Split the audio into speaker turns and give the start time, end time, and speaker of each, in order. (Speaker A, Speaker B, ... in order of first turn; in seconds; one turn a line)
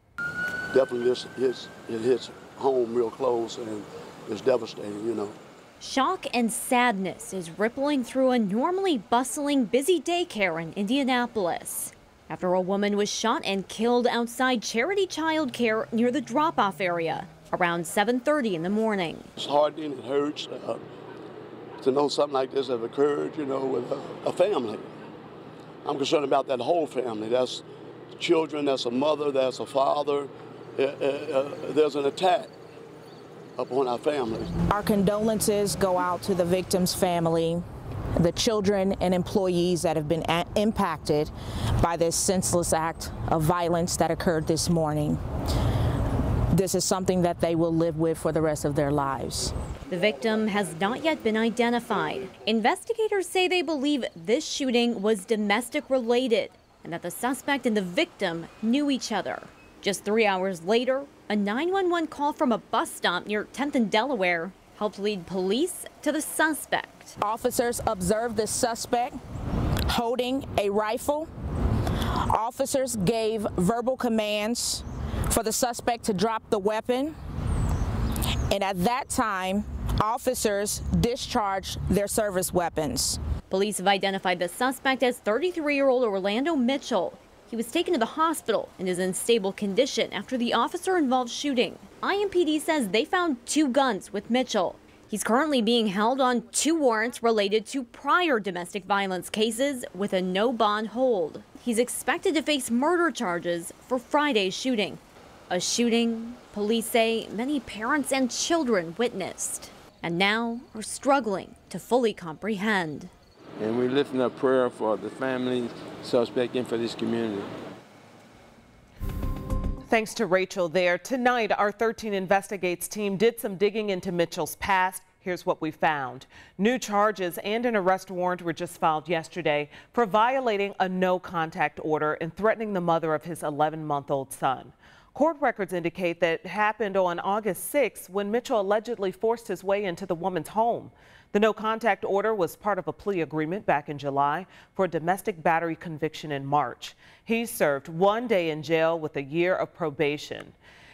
Speaker A: 0.7-5.3
Speaker B: 5.8-19.3
Speaker A: 19.4-20.8
Speaker A: 21.8-24.9
Speaker A: 25.8-32.5
Speaker A: 33.6-34.5
Speaker C: 34.7-37.6
Speaker C: 38.2-45.2
Speaker C: 46.5-49.5
Speaker B: 49.9-67.1
Speaker C: 67.2-69.1
Speaker C: 69.9-71.3
Speaker C: 72.3-77.1
Speaker C: 78.5-83.2
Speaker B: 83.5-113.1
Speaker D: 113.6-117.5
Speaker E: 119.9-150.6